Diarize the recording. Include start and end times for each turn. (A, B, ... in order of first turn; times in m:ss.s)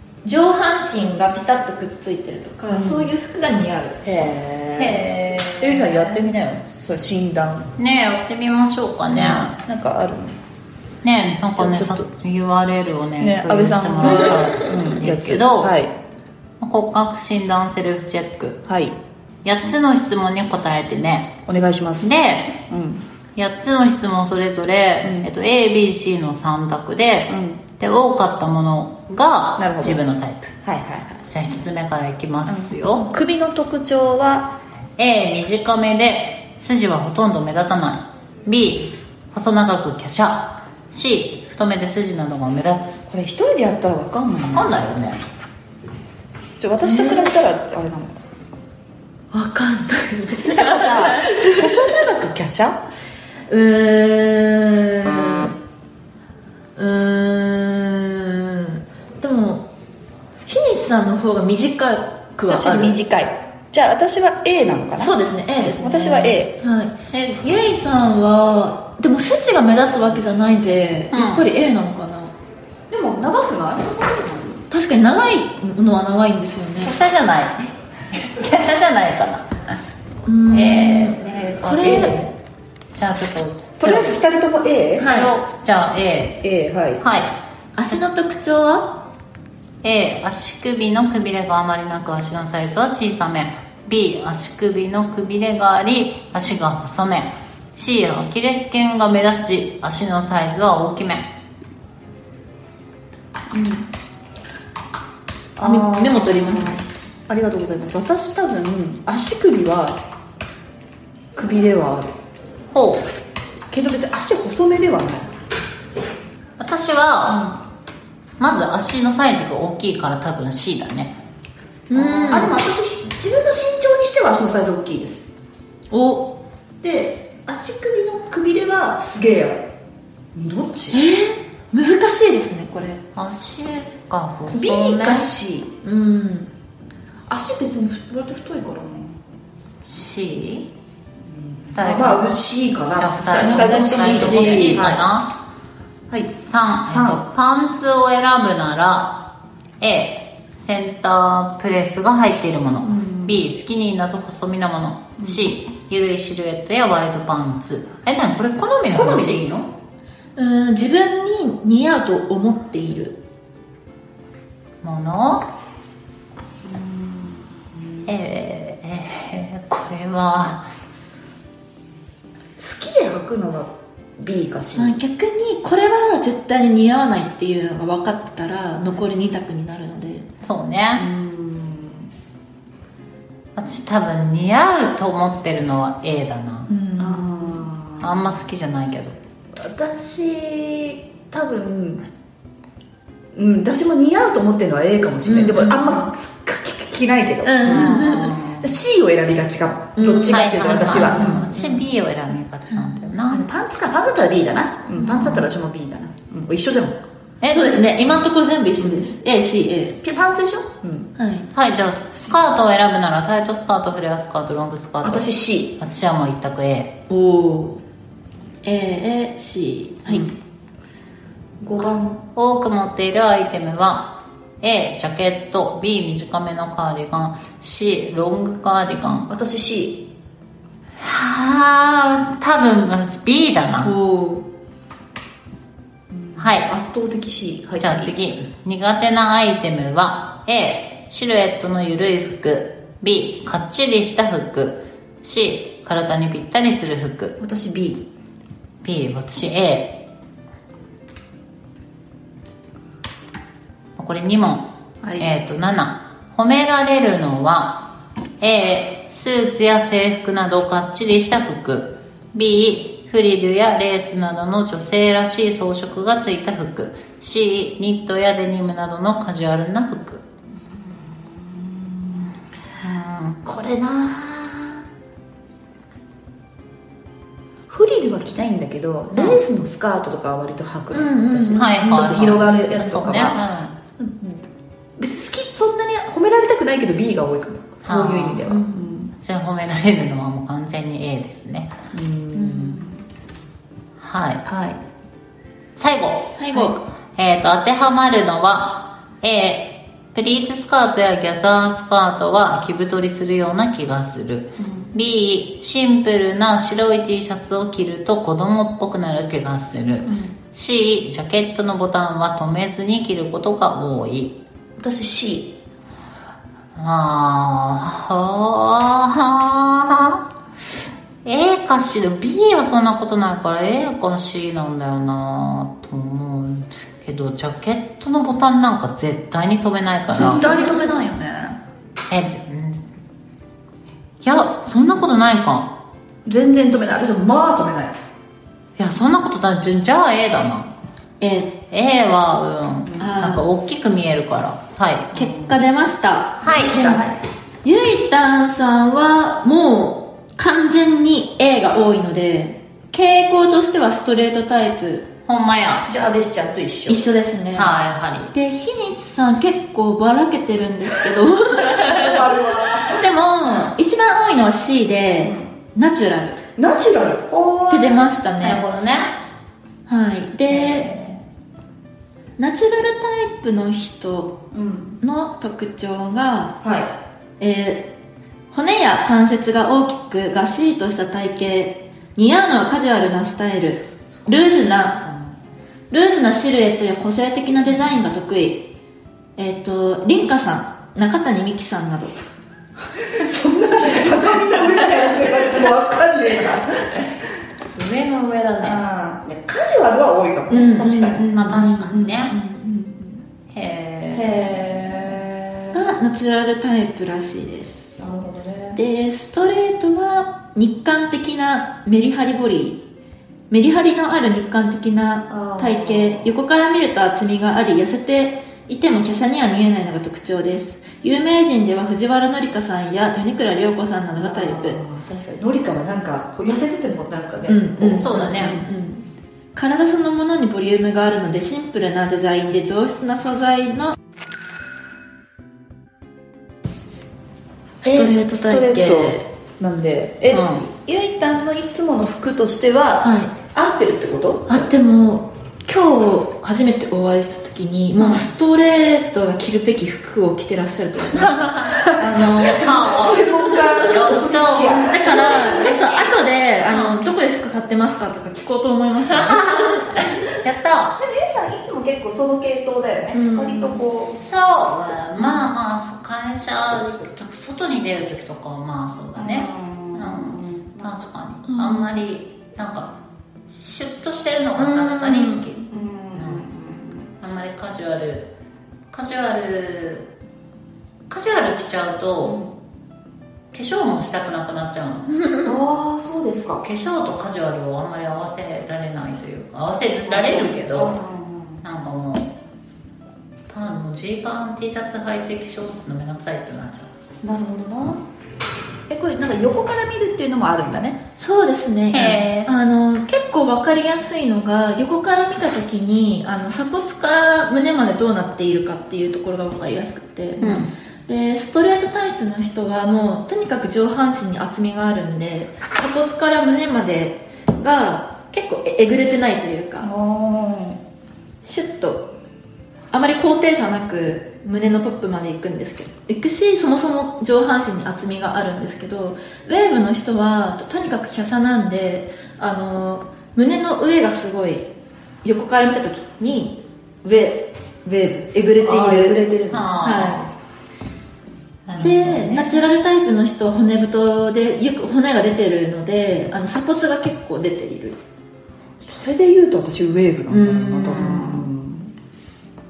0:00.2-0:04.0 A
0:02.7-0:03.1 B
0:04.0-0:05.0 B
0:04.8-0:06.3 C
0:05.6-0:07.7 B
0:07.8-0:09.6 C
0:09.1-0:10.4 B
0:11.0-0:15.7 C
0:11.6-0:12.1 B
0:13.2-0:15.9 B
0:16.6-0:18.6 C
0:18.6-0:19.0 B
0:19.4-0:21.4 C
0:21.5-0:23.0 B
0:22.0-0:22.6 C
0:23.4-0:30.6 C
0:25.0-0:25.3 B
0:27.3-0:27.6 B
0:29.6-0:30.0 B
0:30.6-0:31.2 B
0:31.3-0:33.1 C
0:32.4-0:34.6 B
0:35.0-0:43.0 C
0:43.1-0:44.7 B
0:44.5-0:45.2 C
0:46.6-0:48.2 B
0:46.8-0:47.3 A
0:49.3-0:52.0 A
0:50.4-0:52.8 B
0:53.5-0:55.5 A
0:56.8-0:59.7 A
1:00.4-1:03.0 A
1:02.5-1:06.5 B
1:05.0-1:12.3 A
1:07.1-1:07.4 C
1:11.1-1:11.4 C
1:12.9-1:14.6 B
1:14.7-1:17.0 A
1:16.8-1:19.5 C
1:20.2-1:22.3 A
1:20.5-1:22.2 C
1:21.8-1:22.3 B
1:22.9-1:24.2 C
1:23.8-1:25.1 B
1:25.0-1:25.4 A
1:25.0-1:26.4 C
1:26.4-1:27.0 B
1:27.0-1:27.4 C
1:27.7-1:29.0 A
1:29.8-1:41.3 C
1:43.5-1:43.8 B
1:45.6-1:50.0 B
1:45.6-1:46.9 A
1:51.3-1:52.1 B
1:52.7-1:53.1 C
1:53.7-1:55.3 B
1:56.6-1:57.6 C
1:57.3-1:57.6 B
1:58.4-2:01.1 C
2:01.9-2:02.6 A
2:01.9-2:05.3 B
2:05.9-2:06.4 A
2:06.8-2:09.7 B
2:10.3-2:11.0 B
2:10.9-2:13.0 A
2:13.2-2:15.3 C
2:14.5-2:15.7 B
2:15.8-2:16.5 A
2:17.3-2:19.2 B
2:19.9-2:20.7 C
2:21.3-2:25.0 B
2:21.7-2:22.4 C
2:22.9-2:25.3 C
2:23.4-2:24.9 A
2:26.1-2:27.2 B
2:26.4-2:29.3 C
2:29.8-2:39.4 C
2:32.8-2:33.4 B
2:35.2-2:35.5 B
2:38.9-2:39.7 B
2:40.4-2:43.2 A
2:44.8-2:45.5 C
2:46.6-2:48.1 B
2:48.0-2:50.7 C
2:52.6-2:55.0 B
2:54.8-3:00.3 A
3:00.4-3:01.0 C
3:01.0-3:02.1 B
3:03.6-3:06.7 C
3:06.7-3:07.7 A
3:07.0-3:08.2 B
3:08.0-3:09.2 C
3:09.6-3:12.0 B
3:13.3-3:21.9 B
3:15.2-3:16.0 A
3:17.4-3:18.3 A
3:17.6-3:18.7 C
3:20.0-3:21.5 A
3:20.1-3:23.4 C
3:23.3-3:27.0 B
3:25.0-3:25.5 C
3:27.4-3:28.0 C
3:27.5-3:30.0 A
3:28.8-3:29.1 B
3:30.0-3:31.1 B
3:31.2-3:31.5 A
3:31.5-3:36.9 C
3:35.0-3:35.8 B
3:37.1-3:37.8 A
3:38.6-3:40.3 A
3:41.6-3:42.2 B
3:42.3-3:49.3 C
3:49.3-3:50.1 B
3:51.0-3:53.9 C
3:53.8-3:54.4 A
3:56.1-3:58.1 B
3:56.4-3:56.7 C
3:57.8-4:07.4 C
4:07.4-4:08.1 B
4:08.8-4:10.1 C
4:14.0-4:17.9 C
4:15.0-4:15.3 B
4:18.4-4:30.2 C
4:31.2-4:32.2 B
4:32.8-4:33.5 C
4:33.5-4:34.4 B
4:37.7-4:43.4 B
4:39.1-4:39.4 C
4:40.9-4:42.3 A
4:41.5-4:43.8 C
4:44.0-4:44.4 B
4:45.0-4:49.1 B
4:47.8-4:48.5 C
4:48.5-4:48.9 A
4:49.2-4:51.7 C
4:51.9-4:52.9 B
4:52.3-4:52.8 A
4:54.0-4:54.4 C
4:54.4-4:54.8 B
4:55.8-5:14.3 C
4:56.3-4:56.8 A
5:04.6-5:04.9 B
5:10.0-5:10.3 B
5:14.8-5:15.5 B
5:16.8-5:20.2 C
5:21.2-5:31.0 C
5:30.1-5:31.6 B
5:32.1-5:32.9 C
5:34.2-5:35.8 C
5:36.2-5:37.9 B
5:38.8-5:40.7 C
5:41.2-5:41.6 A
5:41.7-5:45.1 C
5:43.0-5:43.4 A
5:45.1-5:47.0 A
5:45.2-5:45.6 B
5:46.4-5:46.9 C
5:46.5-5:47.2 B
5:47.6-5:55.1 A
5:55.2-5:55.9 C
5:55.9-5:57.0 B
5:56.9-5:57.8 A
5:57.5-5:58.3 C
5:58.3-6:06.4 A
6:01.7-6:03.1 B
6:05.2-6:05.5 B
6:06.6-6:08.1 B
6:07.7-6:08.6 A
6:08.4-6:09.1 C
6:09.9-6:10.9 A
6:10.5-6:11.2 C
6:12.4-6:14.4 A
6:14.5-6:15.0 B
6:15.0-6:16.6 A
6:16.6-6:17.0 B
6:17.4-6:17.9 A
6:18.5-6:25.0 A
6:24.2-6:25.4 B
6:25.9-6:28.7 A
6:29.4-6:32.2 A
6:33.0-6:37.2 B
6:37.7-6:38.8 C
6:38.6-6:42.2 B
6:40.5-6:41.6 A
6:41.3-6:42.3 C
6:42.2-6:43.2 A
6:43.5-6:45.0 C
6:44.1-6:45.8 B
6:45.7-6:48.0 A
6:48.0-6:48.8 B
6:48.7-6:52.8 A
6:53.5-7:04.8 A
6:55.3-6:56.3 B
7:04.2-7:08.1 B
7:07.5-7:13.9 A
7:08.0-7:08.6 C
7:17.8-7:19.2 A
7:17.8-7:24.7 B
7:20.3-7:20.6 C
7:23.0-7:23.3 A
7:24.5-7:33.2 A
7:28.0-7:28.2 C
7:31.1-7:36.1 C
7:32.8-7:35.6 B
7:34.9-7:40.2 A
7:36.7-7:37.0 C
7:39.1-7:41.0 C
7:41.0-7:44.2 B
7:43.1-7:43.9 A
7:43.9-7:53.0 C
7:49.2-7:50.9 B
7:51.4-7:52.0 A
7:53.5-7:55.6 C
7:54.6-7:55.6 A
7:55.7-7:57.0 B
7:56.1-7:56.4 C
7:57.2-7:58.3 C
7:58.9-8:00.1 C
8:01.1-8:02.4 C
8:02.2-8:02.5 B
8:03.5-8:05.2 C
8:05.4-8:06.6 B
8:06.6-8:11.0 C
8:10.1-8:11.6 B
8:11.6-8:12.3 C
8:13.5-8:16.9 C
8:17.2-8:18.0 B
8:18.9-8:21.0 B
8:21.2-8:39.9 A
8:21.9-8:22.5 C
8:30.4-8:30.7 B
8:30.4-8:30.7 C
8:39.8-8:40.8 B
8:41.4-8:42.1 A
8:42.9-8:54.7 A
8:55.2-9:00.2 A
8:58.6-8:59.7 B
8:59.5-9:00.2 C
9:01.7-9:02.4 C
9:01.8-9:08.0 A
9:02.3-9:02.6 B
9:08.8-9:11.9 B
9:10.3-9:11.2 A
9:10.9-9:11.5 C